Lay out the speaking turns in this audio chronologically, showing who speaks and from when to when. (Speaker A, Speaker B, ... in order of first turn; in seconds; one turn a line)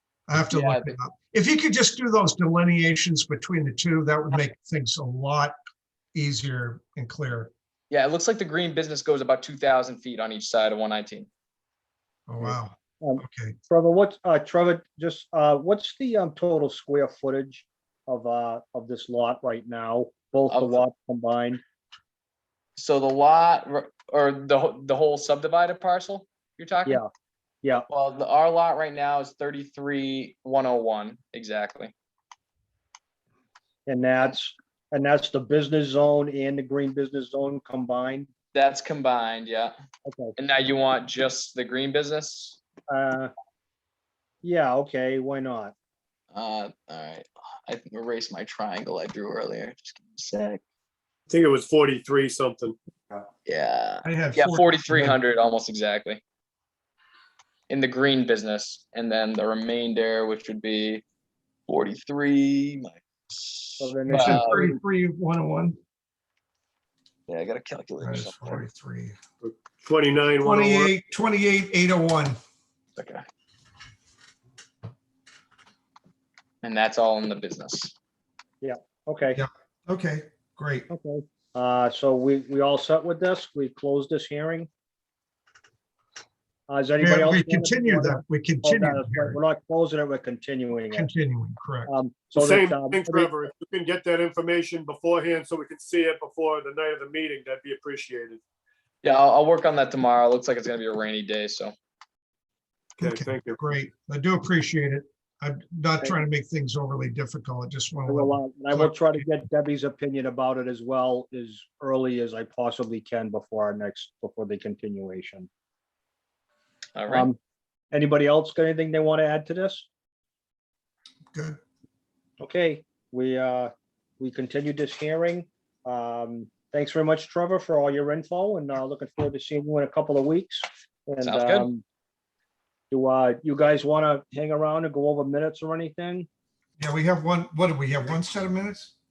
Speaker A: 0.3-5.5
Speaker B: 0.5-0.9
Speaker A: 6.1-7.5
Speaker B: 7.9-11.3
Speaker A: 12.3-13.6
Speaker C: 12.4-21.6
Speaker B: 20.5-20.8
Speaker B: 22.8-27.0
Speaker B: 27.9-31.9
Speaker C: 33.9-38.3
Speaker B: 38.5-39.7
Speaker C: 40.0-40.4
Speaker B: 40.4-42.6
Speaker C: 42.9-43.3
Speaker C: 44.4-45.7
Speaker B: 46.3-50.6
Speaker D: 51.3-52.8
Speaker B: 53.5-56.2
Speaker A: 54.0-55.2
Speaker B: 57.7-61.0
Speaker B: 61.7-64.7
Speaker C: 63.8-64.6
Speaker A: 64.1-65.8
Speaker B: 67.3-68.6
Speaker A: 68.0-69.2
Speaker D: 69.4-70.9
Speaker A: 70.4-72.4
Speaker B: 73.0-73.2
Speaker B: 76.6-77.9
Speaker C: 78.6-79.4
Speaker A: 79.3-80.9
Speaker C: 80.9-84.7
Speaker C: 86.7-91.1
Speaker A: 87.0-89.4
Speaker A: 90.8-91.9
Speaker C: 91.9-93.3
Speaker D: 92.3-98.4
Speaker B: 99.0-101.7
Speaker A: 103.0-109.3
Speaker D: 103.0-103.6
Speaker C: 108.0-115.5
Speaker B: 117.0-117.3
Speaker C: 117.1-117.4
Speaker C: 117.9-119.9
Speaker A: 121.3-121.6
Speaker C: 122.4-131.8
Speaker B: 131.2-131.7
Speaker C: 132.9-136.3
Speaker A: 136.8-138.9